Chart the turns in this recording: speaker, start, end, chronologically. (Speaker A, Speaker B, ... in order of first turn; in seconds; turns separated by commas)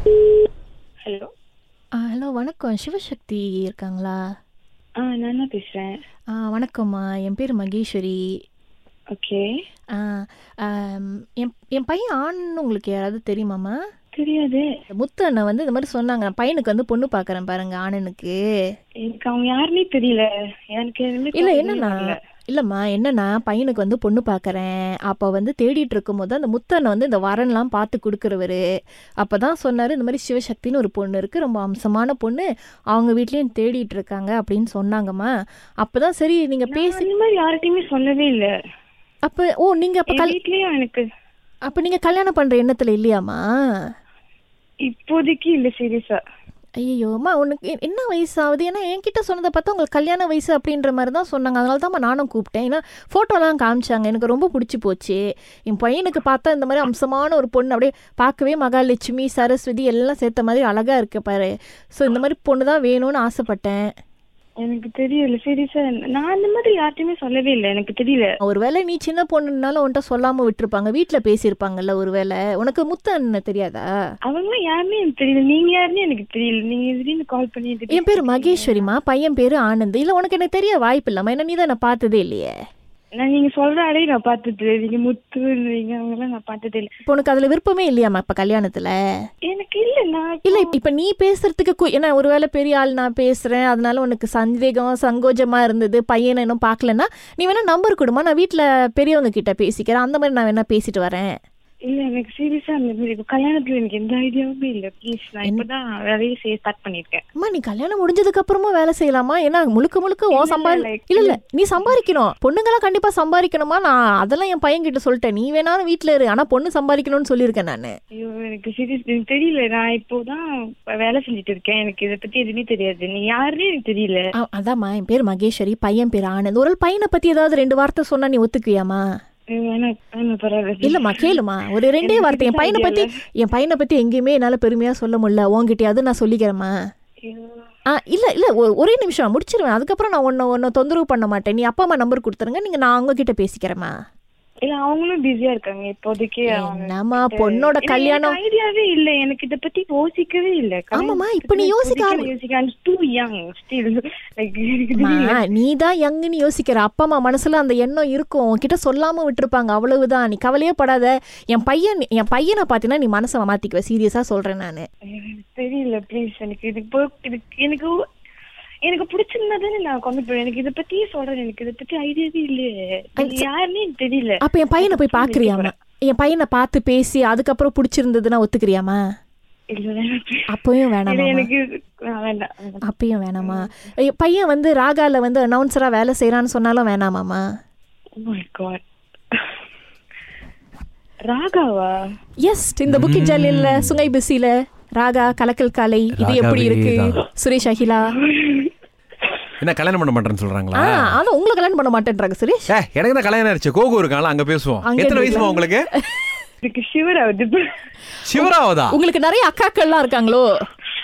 Speaker A: 2.0-4.2, Speaker B: 5.0-6.0, Speaker A: 6.3-8.2, Speaker B: 9.1-9.4, Speaker A: 9.9-13.8, Speaker B: 14.2-14.6, Speaker A: 14.9-18.4, Speaker B: 19.0-22.1, Speaker A: 21.3-28.6, Speaker A: 29.2-37.1, Speaker B: 36.7-38.5, Speaker A: 39.2-40.4, Speaker B: 40.1-41.0, Speaker A: 41.7-43.4, Speaker B: 44.9-46.2, Speaker A: 46.8-63.8, Speaker B: 64.6-68.3, Speaker A: 68.4-73.9, Speaker B: 74.3-78.9, Speaker A: 77.9-82.5, Speaker B: 83.2-86.9, Speaker A: 87.1-88.9, Speaker B: 89.5-90.7, Speaker A: 90.4-101.3, Speaker B: 101.8-107.2, Speaker A: 107.4-117.9, Speaker B: 110.3-111.4, Speaker B: 118.1-124.2, Speaker A: 124.4-129.0, Speaker B: 129.5-131.3, Speaker A: 130.8-136.7, Speaker B: 132.0-133.1, Speaker B: 137.2-137.6, Speaker A: 138.0-143.9, Speaker B: 144.6-155.4, Speaker A: 146.5-148.4, Speaker A: 150.9-152.3, Speaker A: 154.9-164.8, Speaker B: 165.1-167.9, Speaker B: 168.8-175.7, Speaker A: 173.2-173.4, Speaker A: 174.4-179.0, Speaker B: 179.7-180.4, Speaker A: 180.5-181.5, Speaker B: 181.1-182.8, Speaker A: 182.8-187.4, Speaker B: 183.4-183.7, Speaker B: 188.2-188.8, Speaker B: 191.2-191.9, Speaker A: 192.4-198.1, Speaker C: 192.9-194.1, Speaker C: 196.1-197.2, Speaker B: 198.2-198.7, Speaker C: 199.6-201.2, Speaker A: 200.7-202.7, Speaker C: 202.7-205.9, Speaker A: 204.8-206.2, Speaker B: 206.6-207.6, Speaker C: 208.2-209.0, Speaker A: 208.4-210.4